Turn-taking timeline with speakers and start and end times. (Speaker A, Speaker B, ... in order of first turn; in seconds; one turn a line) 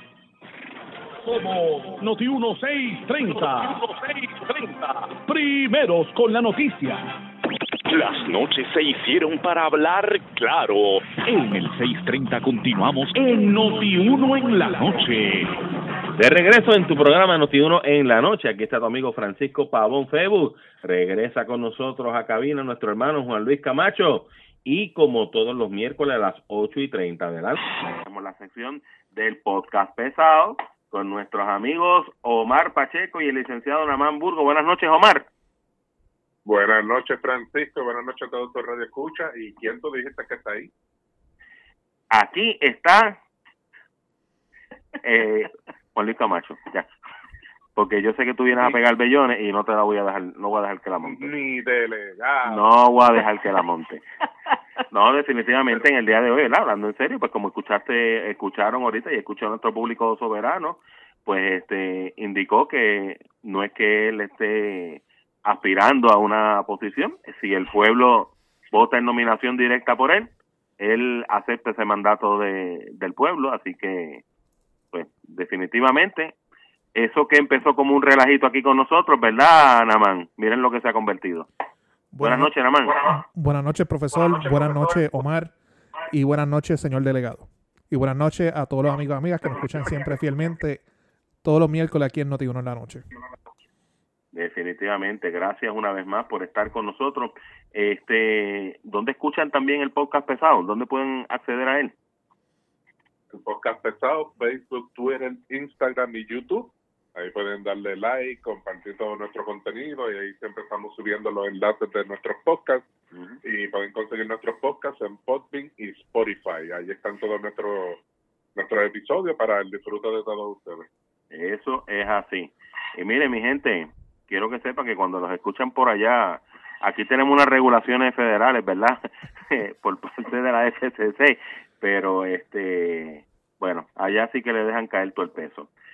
Speaker A: 1.2-7.2
Speaker B: 7.9-15.5
Speaker A: 13.2-15.1
Speaker C: 16.1-35.3
Speaker D: 36.5-40.7
Speaker C: 42.1-43.2
Speaker C: 45.0-46.9
Speaker C: 47.8-51.3
Speaker D: 51.0-52.7
Speaker C: 52.5-54.0
Speaker C: 54.9-74.2
Speaker C: 74.9-76.3
Speaker C: 77.0-81.5
Speaker E: 82.1-85.5
Speaker C: 82.2-83.0
Speaker E: 86.1-90.8
Speaker E: 91.4-93.1
Speaker C: 94.3-101.9
Speaker D: 103.3-112.9
Speaker D: 113.4-118.0
Speaker D: 118.6-120.9
Speaker C: 121.3-135.7